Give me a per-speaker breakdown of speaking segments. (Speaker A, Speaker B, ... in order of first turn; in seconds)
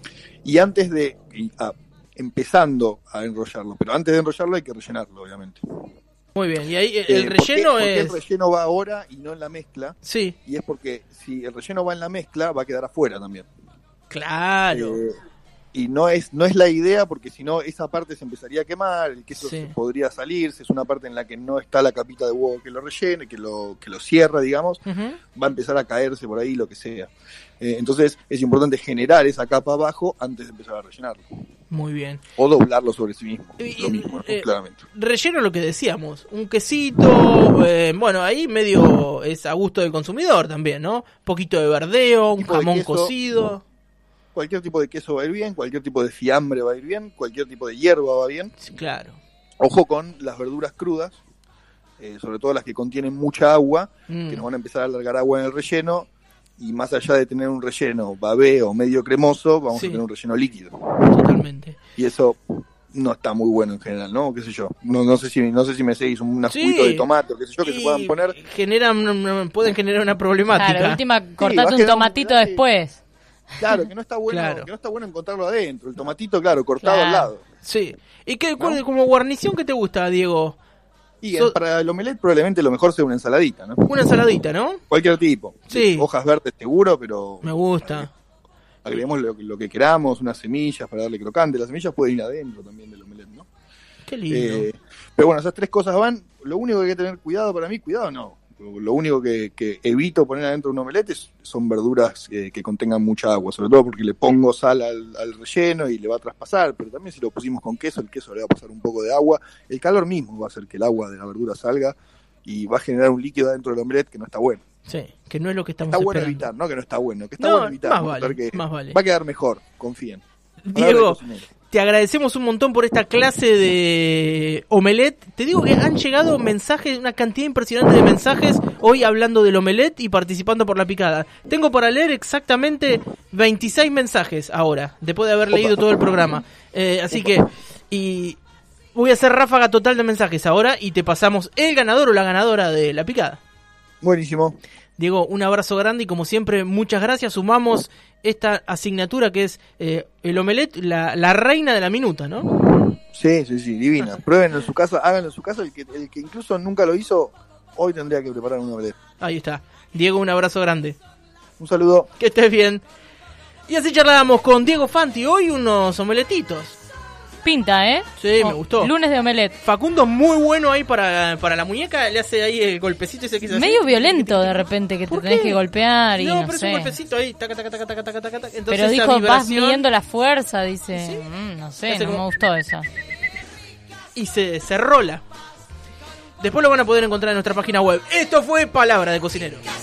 Speaker A: 0.4-5.6, 7.1-13.5, 14.7-15.2, 15.7-24.8, 25.4-31.4, 32.4-34.8, 42.4-43.2, 44.3-48.5, 49.6-51.2, 52.0-61.3, 62.0-68.4, 71.4-72.7, 73.6-77.5, 81.2-84.0, 84.9-88.1, 88.8-93.5, 94.3-114.6, 115.9-121.5, 135.5-135.8, 144.0-144.6, 152.8-159.0, 161.6-162.1
Speaker B: 6.4-8.2, 10.1-10.3, 14.1-15.0, 19.4-19.7, 24.9-25.2, 31.7-32.2, 33.6-43.6, 48.6-49.2, 54.1-54.5, 59.7-60.0, 61.1-61.8, 66.5-67.1, 67.6-71.0, 74.3-74.7, 77.6-80.6, 83.9-84.8, 85.7-86.1, 87.4-88.1, 94.1-94.7, 114.9-116.5, 117.4-119.0, 120.7-121.2, 121.7-138.4, 138.9-143.4, 145.0-152.5, 159.2-161.0, 162.2-162.8, 163.7-166.8, 168.2-168.9, 169.6-175.6, 176.1-179.9, 180.9-181.2, 181.8-182.4, 184.2-185.2, 186.4-189.7
Speaker C: 70.5-73.0, 76.8-77.3, 167.4-169.6, 173.5-177.0, 178.7-182.9